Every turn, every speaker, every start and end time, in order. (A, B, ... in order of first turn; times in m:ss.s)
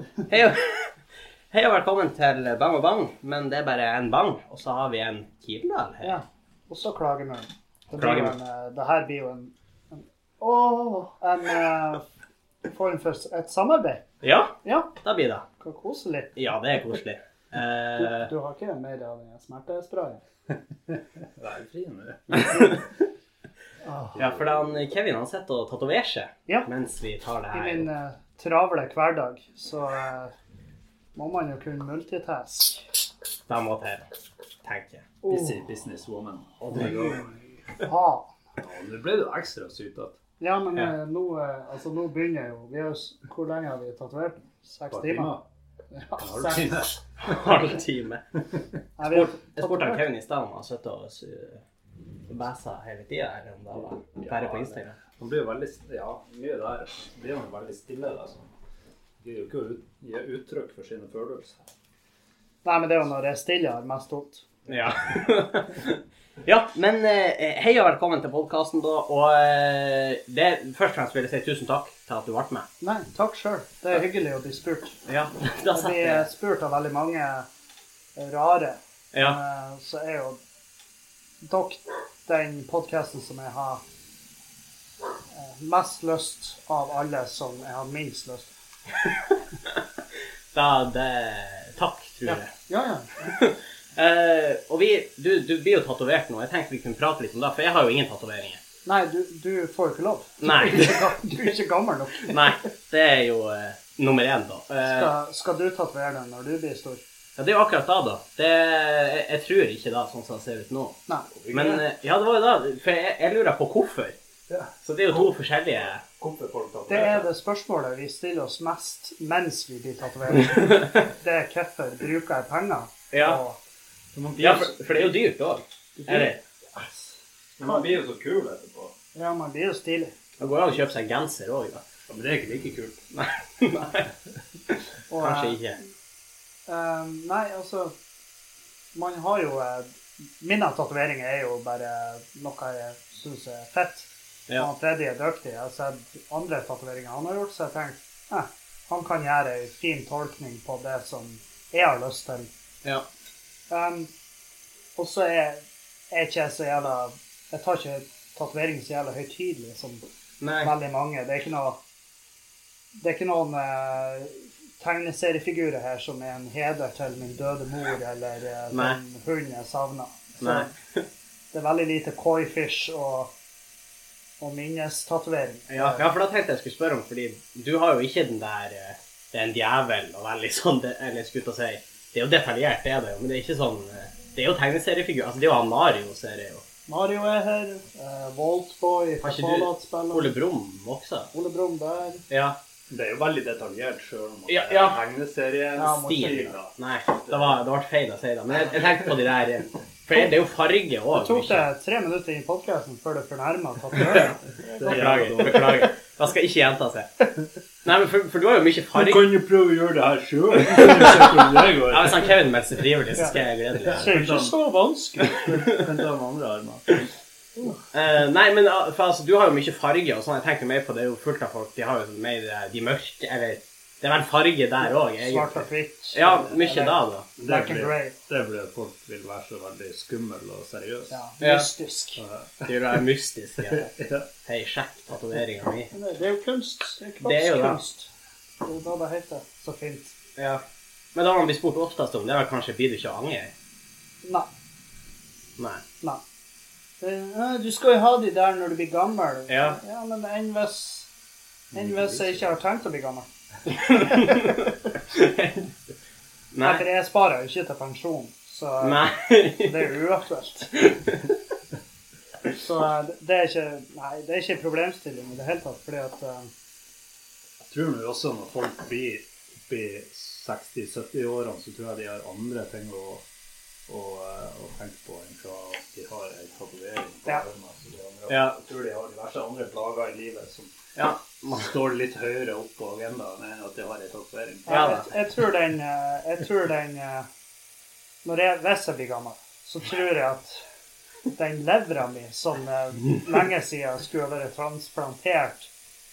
0:00.3-0:00.9 A
0:01.5-0:06.2 A
0:06.0-0:12.0 B
0:08.0-0:08.4 A
0:12.6-0:14.0 B
0:14.2-0:15.4 A
0:14.6-0:14.9 B
0:15.6-0:16.3 B
0:16.4-0:18.3 A
0:18.0-0:20.2 B
0:20.9-0:22.8 C
0:22.4-0:22.9 A
0:23.9-0:24.5 C
0:24.2-0:27.9 A
0:27.5-0:30.3 B
0:31.2-0:32.8 B
0:33.5-0:34.0 A
0:34.6-0:35.0 A
0:35.2-0:35.6 B
0:35.3-0:37.3 C
0:36.6-0:37.3 A
0:37.8-0:38.3 B
0:38.6-0:40.2 C
0:40.4-0:45.3 B
0:44.9-0:45.4 C
0:45.9-0:46.8 B
0:46.2-0:47.5 C
0:47.2-0:48.2 A
0:49.0-0:50.0 B
0:49.0-0:51.6 A
0:52.3-0:55.0 A
0:53.8-0:58.5 C
0:59.2-1:01.6 C
1:02.6-1:04.4 B
1:04.7-1:12.7 A
1:12.8-1:15.0 B
1:15.0-1:16.3 A
1:15.7-1:17.5 B
1:18.2-1:20.4 B
1:19.1-1:19.4 A
1:21.4-1:23.8 B
1:25.3-1:28.5 B
1:29.0-1:29.8 A
1:30.5-1:32.5 A
1:32.2-1:33.4 B
1:33.2-1:38.6 A
1:38.8-1:42.6 B
1:40.4-1:41.1 A
1:42.2-1:45.1 A
1:44.8-1:47.0 B
1:47.4-1:54.2 A
1:51.1-1:51.3 B
1:51.5-1:51.8 C
1:54.5-1:55.3 C
1:54.8-1:56.0 A
1:56.2-1:57.3 C
1:56.9-2:03.6 B
2:00.4-2:01.0 A
2:03.1-2:03.4 A
2:04.1-2:04.8 C
2:04.4-2:06.4 A
2:06.0-2:07.9 B
2:07.6-2:08.9 C
2:09.1-2:10.1 B
2:10.4-2:11.8 A
2:12.1-2:13.0 C
2:13.1-2:14.1 A
2:14.7-2:15.8 A
2:15.1-2:15.7 B
2:16.7-2:17.9 B
2:18.9-2:32.5 B
2:33.7-2:34.1 B
2:35.0-2:40.0 B
2:40.4-2:40.7 A
2:40.6-2:41.8 B
2:43.0-2:50.7 B
2:48.7-2:49.0 A
2:50.4-2:51.0 A
2:51.5-2:53.3 B
2:54.4-2:56.1 B
2:55.7-3:06.6 A
3:06.9-3:10.3 B
3:09.2-3:11.3 A
3:11.3-3:12.2 B
3:12.3-3:12.6 A
3:12.9-3:17.6 C
3:14.5-3:15.0 A
3:15.8-3:16.5 B
3:16.0-3:21.7 A
3:21.1-3:25.6 B
3:24.0-3:24.3 A
3:24.6-3:25.9 C
3:24.9-3:27.1 A
3:27.8-3:29.2 A
3:28.9-3:32.4 C
3:30.6-3:34.1 A
3:33.8-3:34.6 C
3:33.9-3:35.4 B
3:35.2-3:37.1 C
3:35.4-3:35.8 A
3:37.9-3:47.3 A
3:44.8-3:48.1 B
3:47.4-3:51.2 C
3:51.1-3:52.2 B
3:51.4-3:51.7 A
3:52.2-3:53.0 C
3:52.7-3:53.9 A
3:53.7-3:54.3 C
3:54.4-3:55.9 A
3:55.9-3:58.1 B
3:57.2-3:57.8 A
3:58.6-4:00.1 B
4:00.4-4:00.6 A
4:01.1-4:03.5 A
4:05.6-4:05.8 A
4:07.0-4:11.1 B
4:09.5-4:09.8 A
4:11.7-4:12.4 C
4:11.7-4:14.5 B
4:13.7-4:15.7 A
4:16.5-4:16.8 A
4:16.6-4:19.0 B
4:18.8-4:19.9 A
4:19.6-4:20.8 B
4:20.7-4:21.4 A
4:22.5-4:26.5 B
4:27.6-4:33.2 C
4:33.9-4:40.8 C
4:41.0-4:41.7 A
4:41.4-4:45.0 C
4:44.7-4:47.3 B
4:44.7-4:45.1 A
4:48.2-4:50.6 B
4:51.3-4:55.7 B